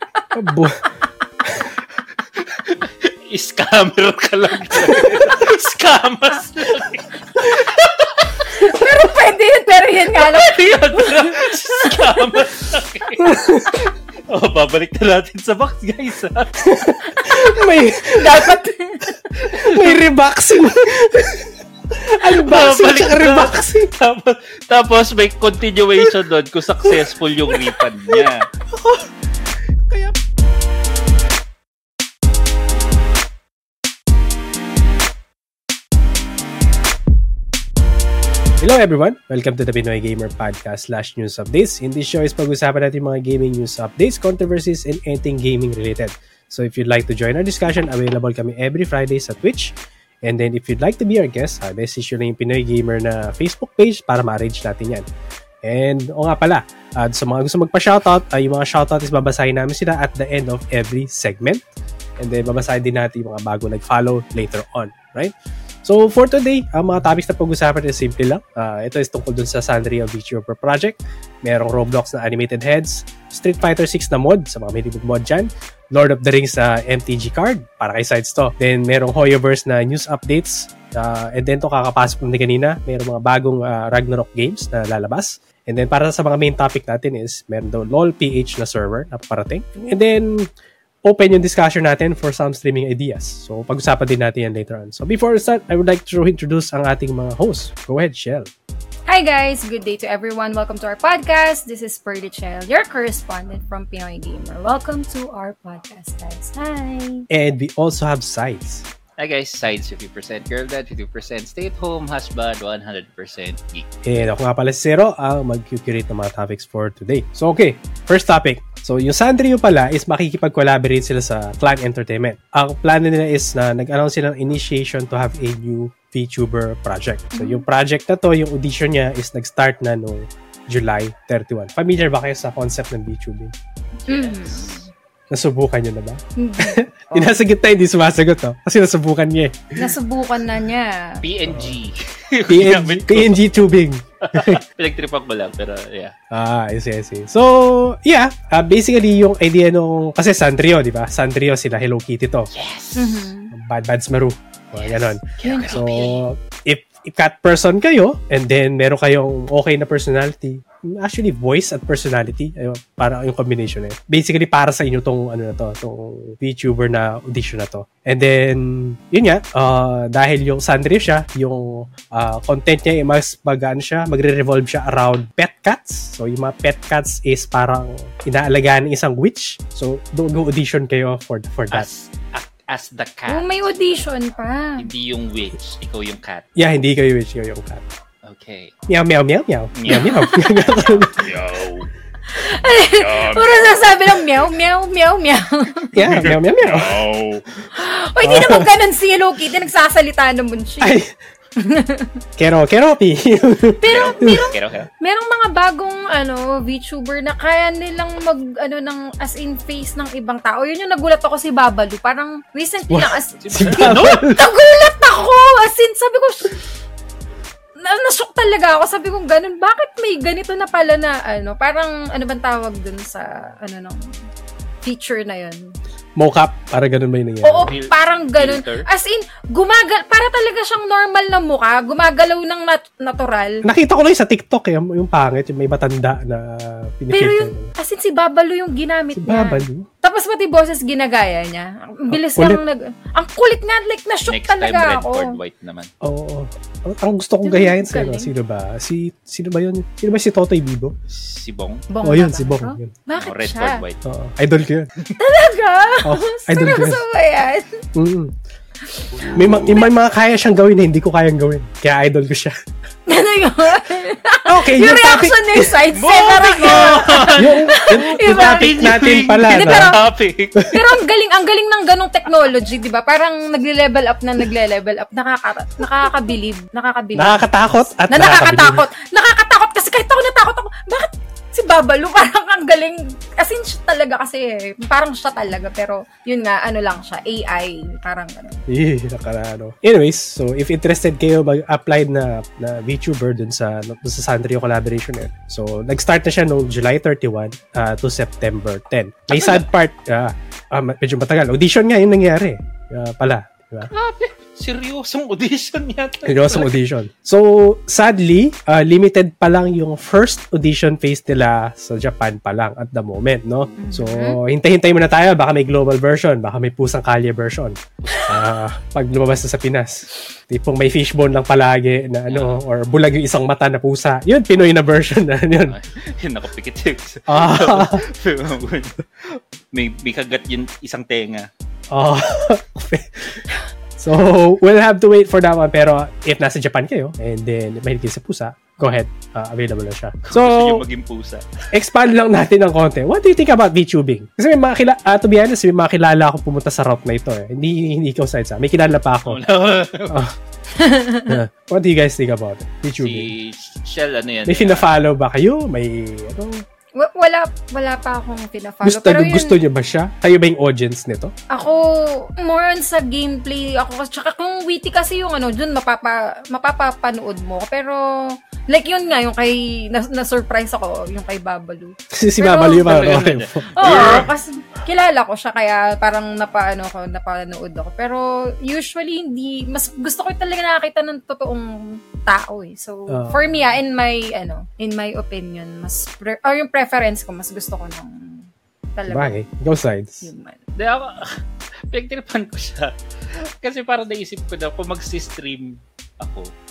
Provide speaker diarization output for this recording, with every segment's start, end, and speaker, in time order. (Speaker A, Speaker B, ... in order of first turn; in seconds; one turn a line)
Speaker A: 0.3-0.8
Speaker B: 2.4-8.4
Speaker C: 8.5-12.4
Speaker B: 10.1-13.4
Speaker A: 13.2-13.7
Speaker B: 14.3-16.5
Speaker A: 16.6-18.7
Speaker C: 18.3-19.1
Speaker A: 19.4-23.9
Speaker B: 19.5-20.0
Speaker B: 22.2-28.5
Speaker A: 28.1-29.1
Speaker A: 29.9-30.1
Speaker A: 38.6-55.0
Speaker A: 55.6-61.6
Speaker A: 62.2-65.3
Speaker A: 65.8-90.5
Speaker A: 91.0-98.5
Speaker C: 99.1-107.3
Speaker A: 107.3-108.8
Speaker B: 109.2-113.9
Speaker A: 114.0-133.5
Speaker C: 127.3-127.7
Speaker B: 134.0-134.9
Speaker C: 134.1-134.8
Speaker A: 135.3-139.8
Speaker C: 136.4-137.3
Speaker C: 139.8-141.2
Speaker B: 141.2-143.6
Speaker A: 141.5-141.8
Speaker A: 142.5-144.6
Speaker B: 144.2-146.2
Speaker A: 146.3-152.5
Speaker B: 152.5-153.3
Speaker C: 153.0-153.5
Speaker A: 153.5-181.9
Speaker B: 154.8-156.2
Speaker C: 155.4-156.1
Speaker B: 181.7-184.0
Speaker C: 183.3-184.9
Speaker B: 184.8-186.5
Speaker A: 186.6-187.8
Speaker B: 188.2-188.7
Speaker A: 188.9-191.3
Speaker B: 189.8-191.9
Speaker C: 189.9-190.4
Speaker C: 192.3-195.9
Speaker B: 192.6-194.3
Speaker B: 195.9-197.4
Speaker A: 195.9-197.0
Speaker C: 197.8-201.0
Speaker A: 198.2-198.7
Speaker A: 200.8-201.1
Speaker C: 201.6-202.2
Speaker A: 202.4-204.5
Speaker C: 203.8-216.6
Speaker B: 203.9-204.9
Speaker A: 212.9-214.4
Speaker B: 213.4-214.2
Speaker C: 217.8-224.1
Speaker C: 224.8-225.7
Speaker A: 226.2-227.7
Speaker C: 227.4-233.7
Speaker B: 227.7-228.9
Speaker A: 233.6-237.7
Speaker C: 237.1-245.4
Speaker A: 239.2-239.8
Speaker A: 242.1-242.6
Speaker B: 244.3-245.9
Speaker A: 246.0-250.9
Speaker C: 247.4-248.3
Speaker B: 251.1-251.8
Speaker C: 251.9-253.8
Speaker A: 252.0-252.9
Speaker B: 253.1-254.0
Speaker A: 254.0-254.9
Speaker C: 255.2-257.8
Speaker A: 256.0-257.0
Speaker A: 257.9-258.3
Speaker C: 258.9-259.9
Speaker B: 259.1-259.8
Speaker A: 259.4-262.6
Speaker C: 263.1-270.0
Speaker A: 264.5-265.7
Speaker B: 265.9-270.7
Speaker A: 267.4-269.9
Speaker C: 270.7-288.6
Speaker A: 277.2-278.8
Speaker A: 288.7-303.9
Speaker B: 303.9-306.8
Speaker A: 306.2-325.8
Speaker C: 313.8-314.4
Speaker B: 318.0-318.5
Speaker B: 322.3-322.6
Speaker B: 325.7-329.0
Speaker A: 327.3-328.1
Speaker B: 329.7-331.5
Speaker A: 331.9-333.4
Speaker A: 334.0-340.8
Speaker B: 340.2-341.4
Speaker A: 341.7-349.4
Speaker B: 349.3-350.2
Speaker A: 350.1-350.3
Speaker C: 350.7-351.4
Speaker A: 351.3-353.3
Speaker B: 353.0-355.0
Speaker A: 354.5-356.6
Speaker C: 357.0-359.6
Speaker A: 358.8-361.3
Speaker C: 361.5-373.0
Speaker A: 372.1-374.3
Speaker B: 372.8-374.3
Speaker C: 373.8-389.5
Speaker A: 383.1-383.4
Speaker A: 389.1-390.3
Speaker C: 390.2-390.6
Speaker B: 390.8-396.5